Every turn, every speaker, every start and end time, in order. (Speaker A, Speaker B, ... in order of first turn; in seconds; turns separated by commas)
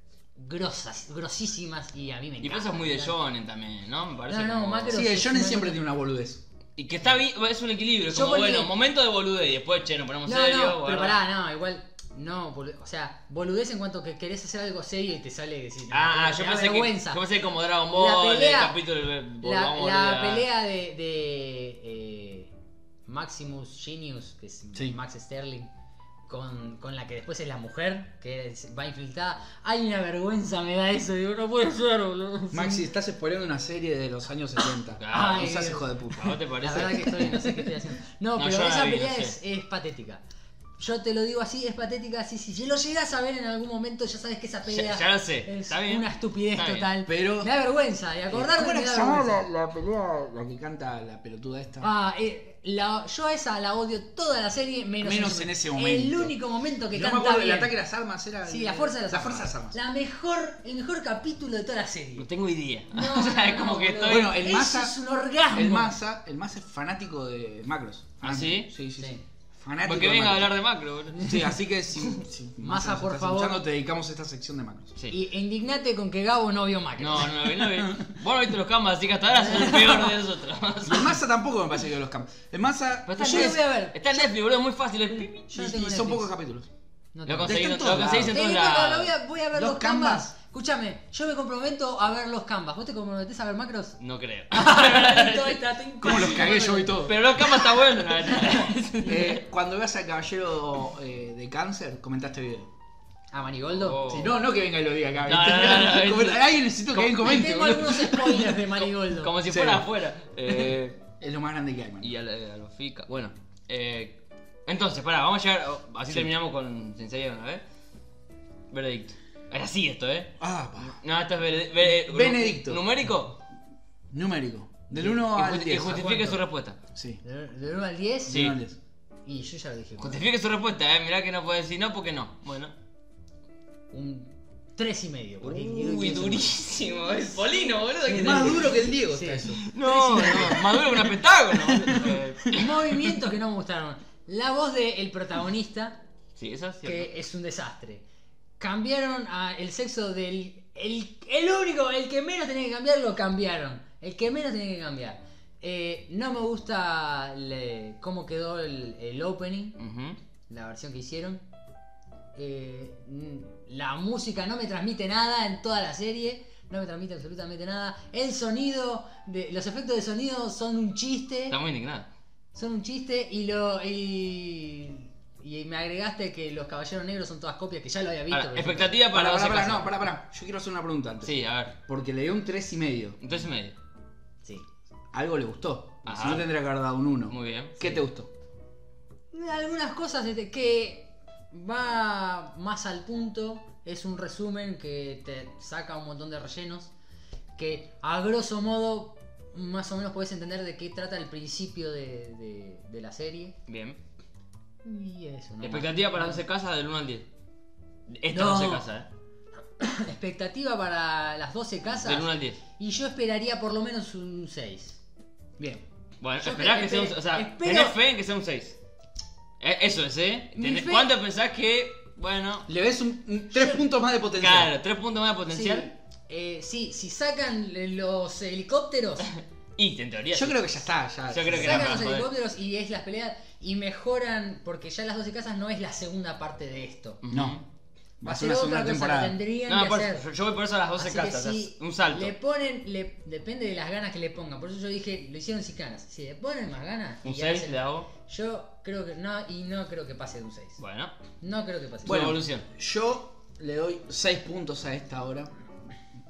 Speaker A: 0.3-3.1, Speaker B: 2.4-5.0, Speaker A: 4.3-5.8, Speaker C: 4.9-6.4, Speaker B: 6.8-11.2, Speaker A: 8.1-8.7, Speaker A: 10.2-17.2, Speaker B: 15.9-20.5, Speaker A: 17.9-18.8, Speaker A: 19.4-22.5, Speaker A: 23.1-25.7, Speaker A: 26.3-32.9, Speaker C: 32.5-36.4, Speaker B: 35.0-37.7, Speaker A: 35.1-35.9, Speaker A: 36.6-40.2, Speaker B: 38.4-39.4, Speaker A: 40.8-49.5, Speaker B: 44.7-46.9, Speaker C: 47.0-47.5, Speaker C: 48.3-51.9, Speaker A: 51.8-57.7, Speaker C: 55.0-56.3, Speaker C: 56.9-59.8, Speaker A: 58.4-62.3, Speaker B: 62.2-64.3, Speaker A: 62.9-65.9, Speaker C: 64.1-65.0, Speaker C: 65.5-70.5, Speaker B: 68.2-68.7, Speaker A: 69.0-69.2, Speaker B: 69.8-72.2, Speaker C: 71.2-74.9, Speaker A: 72.6-73.6, Speaker A: 75.1-77.6, Speaker B: 77.0-81.2, Speaker A: 79.3-80.1, Speaker C: 80.8-83.6, Speaker B: 83.1-85.5, Speaker A: 83.2-84.3, Speaker A: 85.4-86.3, Speaker C: 85.5-86.7, Speaker A: 87.1-94.0, Speaker B: 87.3-89.1, Speaker C: 87.4-88.4, Speaker C: 89.5-90.3, Speaker B: 94.0-99.4, Speaker A: 94.5-97.1, Speaker C: 96.0-97.2, Speaker A: 98.1-98.7, Speaker C: 99.0-102.7, Speaker A: 103.3-104.0, Speaker B: 103.7-104.4, Speaker C: 104.0-108.4, Speaker B: 105.3-107.2, Speaker A: 107.0-109.3, Speaker B: 108.6-111.0, Speaker C: 109.5-109.9, Speaker C: 111.2-112.1, Speaker B: 112.0-117.6, Speaker B: 118.7-120.3, Speaker C: 120.4-121.0, Speaker B: 120.9-123.4, Speaker C: 121.8-122.8, Speaker C: 124.1-126.1, Speaker A: 124.9-125.3, Speaker B: 125.2-126.8, Speaker A: 125.8-126.4, Speaker C: 126.9-127.2, Speaker A: 127.2-128.4, Speaker B: 128.3-128.6, Speaker C: 128.3-128.8, Speaker A: 129.2-130.2, Speaker B: 130.0-132.7, Speaker A: 133.9-136.6, Speaker B: 135.4-138.8, Speaker C: 138.1-139.7, Speaker A: 138.2-140.8, Speaker B: 139.7-142.8, Speaker C: 141.6-142.6, Speaker A: 142.5-146.0, Speaker B: 146.3-147.1, Speaker A: 146.8-148.0, Speaker A: 148.6-159.8, Speaker B: 159.8-160.2, Speaker A: 160.5-161.4, Speaker A: 162.3-171.6, Speaker B: 171.5-172.1, Speaker A: 172.5-178.9, Speaker B: 178.3-180.0, Speaker C: 179.1-183.2, Speaker B: 181.2-181.8, Speaker B: 183.2-183.7, Speaker C: 185.1-188.3, Speaker B: 186.0-186.5, Speaker B: 187.3-188.0, Speaker A: 189.3-196.9, Speaker A: 197.6-203.5, Speaker B: 203.7-204.0, Speaker A: 204.8-206.4, Speaker B: 205.6-207.2, Speaker B: 208.1-209.1, Speaker A: 208.3-208.9, Speaker A: 209.8-215.0, Speaker B: 212.0-212.6, Speaker C: 215.6-215.8, Speaker B: 216.2-218.8, Speaker A: 216.4-218.0, Speaker B: 219.6-222.7, Speaker A: 220.5-221.1, Speaker C: 222.7-224.7, Speaker B: 224.4-225.9, Speaker A: 225.5-229.3, Speaker B: 229.3-232.3, Speaker C: 230.3-232.0, Speaker A: 231.5-237.2, Speaker B: 237.2-237.6, Speaker C: 237.3-237.6, Speaker C: 238.2-239.4, Speaker A: 238.2-240.2, Speaker B: 239.7-242.3, Speaker A: 241.0-250.8, Speaker B: 247.2-248.1, Speaker B: 250.8-251.1, Speaker A: 251.4-252.2, Speaker B: 252.0-252.6, Speaker C: 252.0-255.5